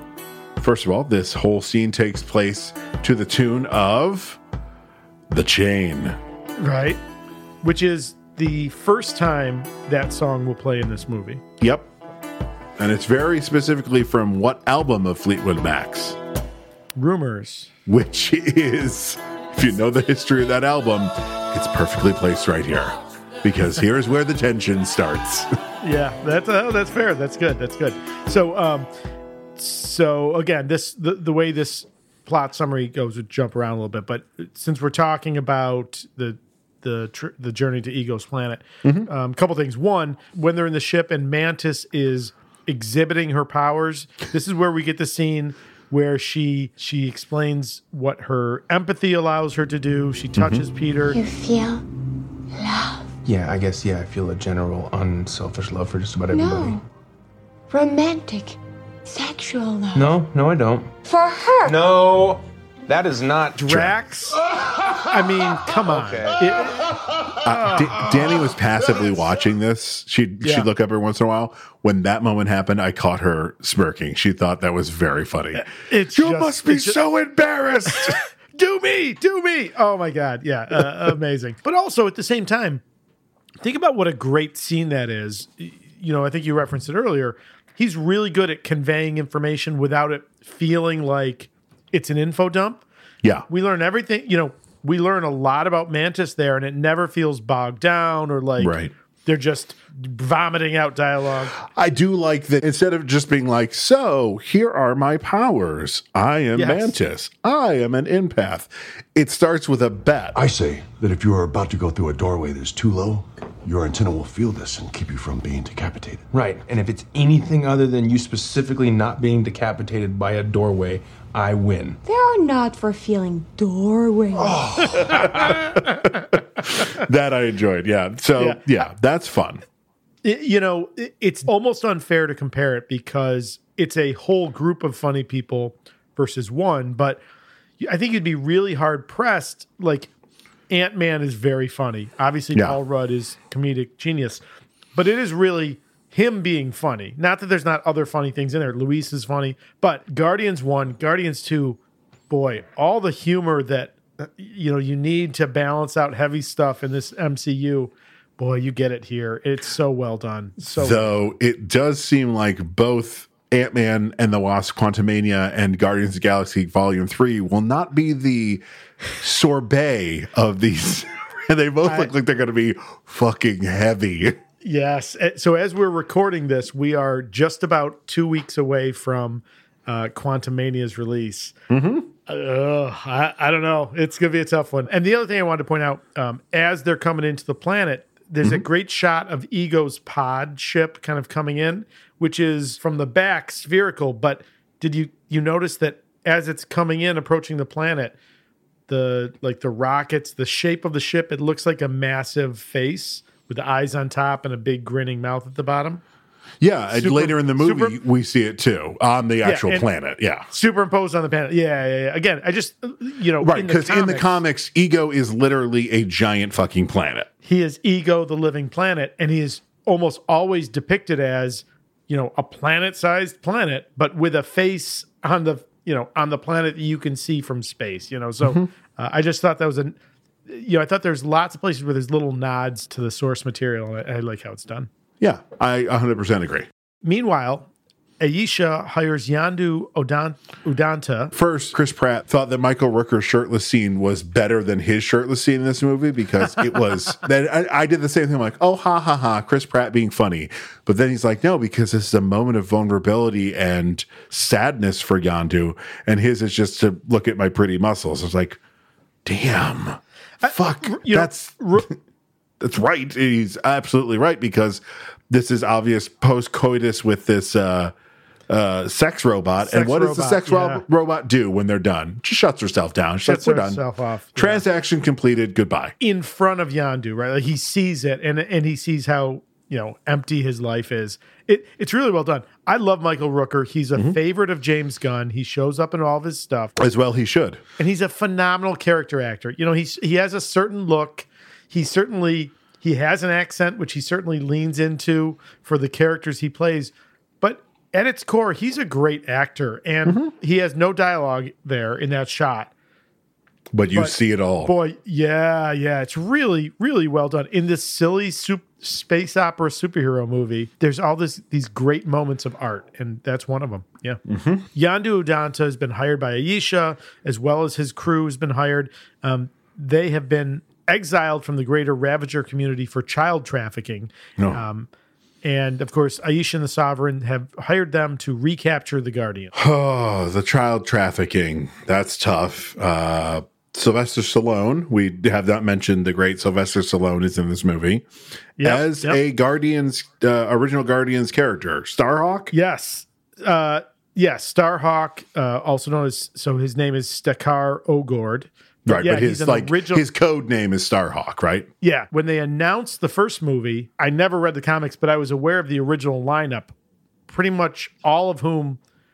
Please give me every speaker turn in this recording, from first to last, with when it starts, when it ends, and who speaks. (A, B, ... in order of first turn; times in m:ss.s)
0:00.6-0:04.4 A
0:05.3-0:06.2 A
0:06.6-0:07.0 B
0:07.6-0:11.4 B
0:11.6-0:11.9 A
0:12.8-0:16.2 A
0:17.0-0:17.7 B
0:17.8-0:25.5 A
0:25.8-0:28.9 B
0:29.6-0:51.2 B
0:38.8-0:39.1 A
0:50.4-0:50.6 A
0:51.1-0:51.8 C
0:52.6-0:53.0 C
0:53.2-0:56.8 D
0:56.3-0:56.7 C
0:57.7-0:58.6 C
0:59.1-0:59.9 C
0:59.9-1:00.9 D
1:01.1-1:01.7 C
1:01.6-1:03.8 D
1:03.6-1:04.4 B
1:05.1-1:06.9 B
1:05.9-1:06.4 D
1:07.4-1:18.2 A
1:07.5-1:08.0 B
1:10.4-1:10.7 B
1:15.6-1:17.0 B
1:17.9-1:22.8 B
1:23.6-1:32.8 B
1:33.5-1:41.6 B
1:38.6-1:38.9 A
1:41.6-1:50.4 A
1:46.5-1:46.9 B
1:50.3-1:56.3 E
1:56.3-2:02.0 D
2:02.1-2:04.5 C
2:04.4-2:05.2 D
2:05.0-2:06.1 A
2:06.6-2:09.6 A
2:08.4-2:08.8 B
2:10.2-2:17.2 B
2:17.8-2:20.1 B
2:20.7-2:24.4 B
2:24.9-2:31.8 B
2:32.3-2:41.1 B
2:40.8-2:48.6 A
2:49.2-2:54.4 A
2:51.8-2:52.1 B
2:54.6-3:01.5 B
3:01.7-3:02.1 A
3:02.3-3:18.1 B
3:18.9-3:26.0 B
3:26.6-3:30.4 A
3:26.9-3:28.0 B
3:29.4-3:29.9 B
3:30.5-3:34.4 B
3:33.4-3:37.3 A
3:37.4-3:50.0 B
3:48.4-3:48.7 A
3:50.5-3:54.9 B
3:55.2-3:56.7 A
3:57.0-3:57.7 B
3:58.2-4:01.3 B
4:01.3-4:18.6 A
4:19.2-4:21.8 A
4:20.4-4:21.9 B
4:22.6-4:27.9 A
4:28.5-4:33.8 A
4:29.6-4:30.8 B
4:33.2-4:34.6 B
4:34.4-4:35.9 A
4:36.0-4:46.7 B
4:46.8-4:47.6 A
4:47.8-5:02.7 B
5:00.0-5:00.3 A
5:03.7-5:04.7 A
5:03.9-5:14.2 B
5:14.3-5:14.6 A
5:14.7-5:24.9 B
5:24.4-5:24.6 A
5:25.4-5:29.5 B
5:29.5-5:38.0 A
5:38.6-5:39.2 B
5:38.6-5:42.5 A
5:42.5-5:50.0 B
5:48.9-5:51.7 A
5:51.8-5:56.7 B
5:57.3-5:58.8 B